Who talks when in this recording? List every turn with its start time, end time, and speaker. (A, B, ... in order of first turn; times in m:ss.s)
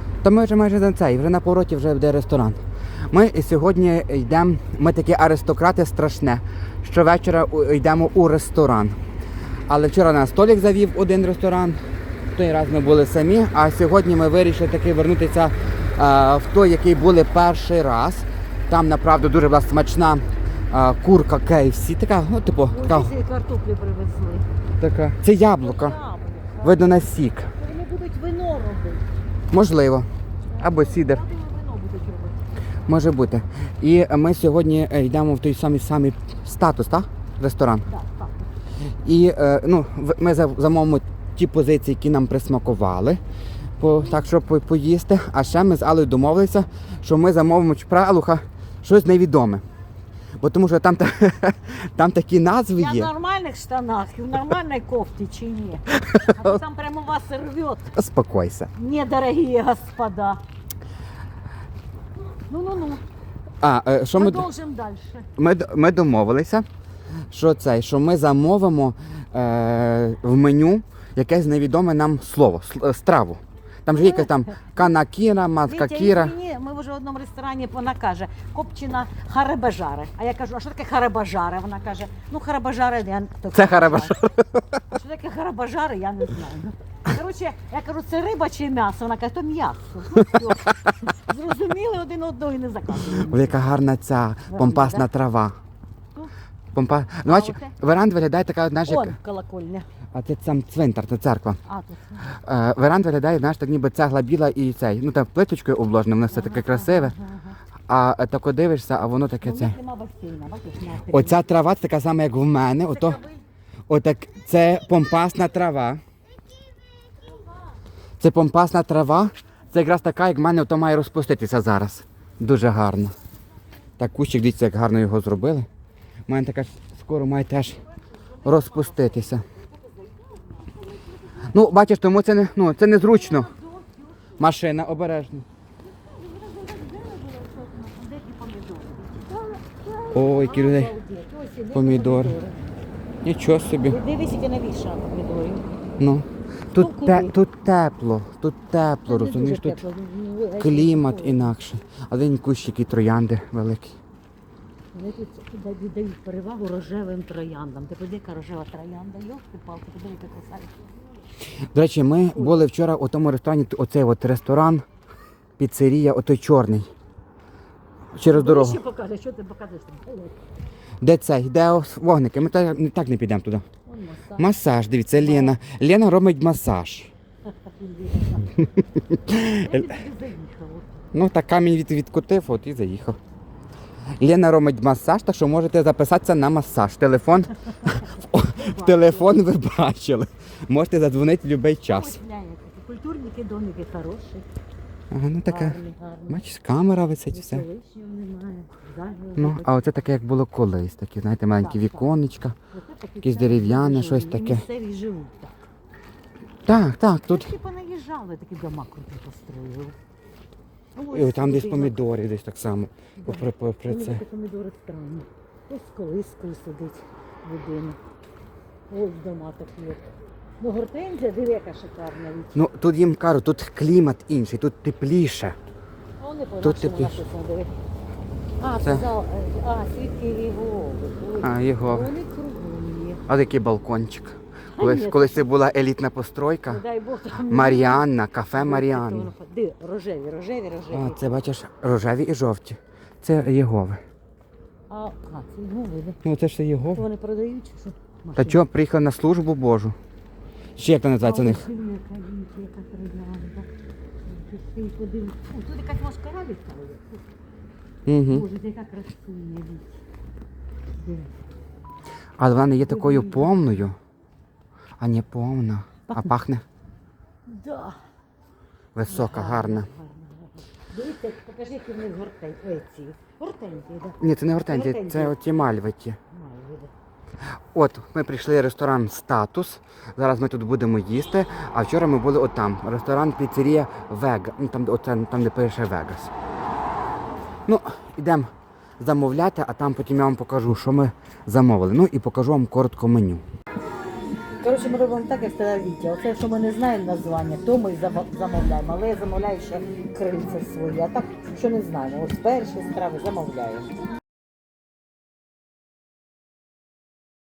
0:00.2-0:02.6 A
0:03.1-0:08.9 A
0:09.7-0:11.8 A
0:12.3-0:23.1 A
0:22.7-0:24.5 B
0:24.8-0:26.0 A
0:25.6-0:26.9 B
0:26.6-0:27.5 A
0:27.5-0:29.1 B
0:29.5-0:30.0 A
0:30.5-0:32.5 B
0:30.6-0:31.2 A
0:32.9-0:37.9 A
0:37.9-0:38.5 B
0:38.8-0:43.2 A
0:43.8-0:49.6 A
0:44.0-0:44.3 B
0:50.4-0:53.1 A
0:52.7-0:58.0 B
0:56.0-0:56.5 A
0:57.9-0:58.7 A
0:58.7-1:00.4 B
1:02.5-1:03.0 B
1:03.6-1:04.5 A
1:04.1-1:05.3 B
1:05.4-1:06.6 A
1:07.3-1:16.3 A
1:13.9-1:14.8 B
1:15.7-1:24.2 B
1:23.5-1:24.9 A
1:24.8-1:33.8 B
1:33.1-1:35.6 A
1:34.5-1:35.1 B
1:36.7-1:39.2 A
1:37.2-1:37.8 B
1:38.8-1:39.9 B
1:40.1-1:41.6 A
1:41.6-1:42.3 B
1:42.3-1:47.1 A
1:46.3-1:47.6 B
1:47.9-1:49.7 A
1:49.4-1:51.5 B
1:51.1-1:53.2 A
1:52.9-1:53.4 B
1:53.9-1:56.0 A
1:58.2-2:03.1 A
2:04.0-2:05.7 A
2:06.3-2:07.8 A
2:08.4-2:11.5 B
2:08.4-2:09.4 A
2:11.4-2:13.5 A
2:13.0-2:14.4 B
2:14.4-2:15.4 A
2:15.8-2:22.6 B
2:20.1-2:20.9 A
2:21.7-2:22.4 A
2:23.2-2:24.0 A
2:23.8-2:25.6 B
2:26.0-2:29.8 A
2:26.7-2:27.4 B
2:29.0-2:31.5 B
2:30.6-2:34.0 A
2:34.9-2:40.7 B
2:41.7-2:44.8 A
2:42.3-2:42.7 B
2:45.6-2:46.9 A
2:48.1-2:48.8 A
2:48.2-2:50.4 B
2:51.0-2:53.6 A
2:53.8-2:54.6 B
2:54.4-2:57.1 A
2:55.1-2:55.6 B
2:57.5-2:58.6 B
2:58.6-2:59.8 A
2:59.5-3:01.1 B
3:01.1-3:03.2 A
3:04.2-3:12.2 A
3:08.6-3:09.4 B
3:11.8-3:14.4 B
3:15.1-3:15.8 A
3:15.5-3:16.4 B
3:16.3-3:17.7 A
3:17.3-3:19.9 B
3:19.4-3:22.6 A
3:21.5-3:22.2 B
3:22.7-3:25.7 B
3:23.2-3:24.6 A
3:26.6-3:27.5 A
3:27.2-3:30.0 B
3:30.9-3:32.1 B
3:31.1-3:34.2 A
3:33.2-3:38.0 B
3:38.9-3:42.6 B
3:42.5-3:45.5 A
3:46.2-3:47.7 B
3:46.6-3:47.2 A
3:48.6-3:53.2 B
3:51.4-3:52.1 A
3:53.3-3:56.8 A
3:54.7-3:55.5 B
3:56.7-4:01.4 B
3:57.4-3:59.3 A
4:00.9-4:04.0 A
4:04.9-4:06.2 B
4:06.2-4:07.0 A
4:06.9-4:08.6 B
4:08.4-4:10.0 A
4:10.8-4:11.6 A
4:11.2-4:13.7 B
4:14.2-4:17.2 B
4:18.0-4:18.4 A
4:18.2-4:19.9 B
4:21.0-4:21.3 B
4:22.4-4:24.0 A
4:22.8-4:23.5 B
4:25.0-4:26.6 A
4:26.1-4:26.3 B
4:27.4-4:28.0 B
4:28.9-4:29.9 A
4:29.1-4:35.4 B
4:34.2-4:36.2 A
4:36.3-4:36.9 B
4:37.7-4:46.3 A
4:47.6-4:48.5 A
4:49.0-4:53.4 A
4:54.6-5:04.0 B